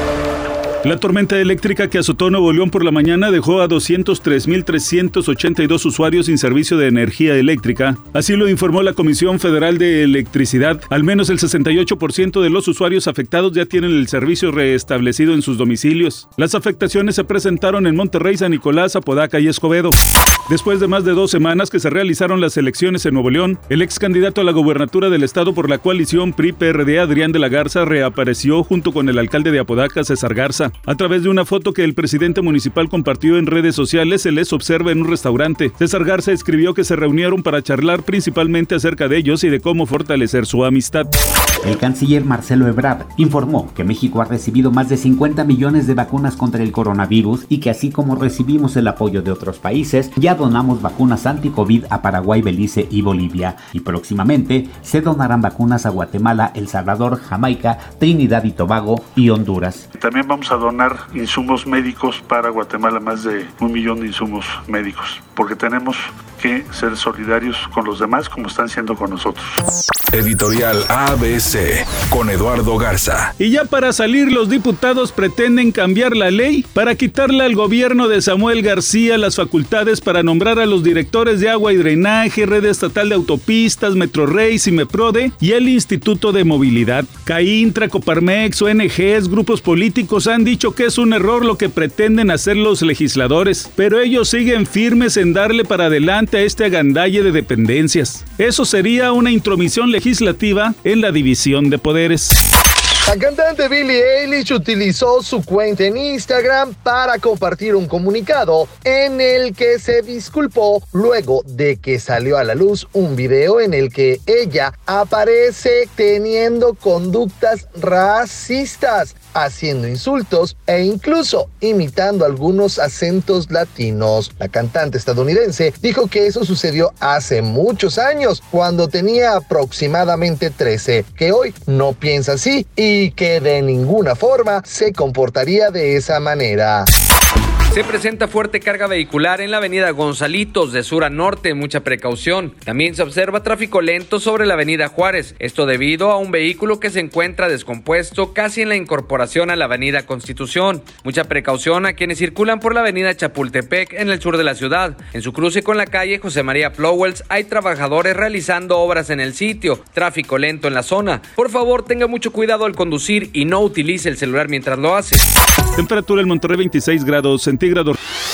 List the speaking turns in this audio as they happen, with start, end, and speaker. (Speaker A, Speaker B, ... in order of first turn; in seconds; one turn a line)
Speaker A: 0.8-20.0
Speaker A: 20.5-41.1
Speaker B: 41.6-59.9
Speaker C: 60.0-69.6
Speaker D: 70.1-73.3
Speaker A: 73.4-102.4
Speaker E: 103.1-136.9
Speaker F: 137.7-165.2
Speaker A: 165.8-168.0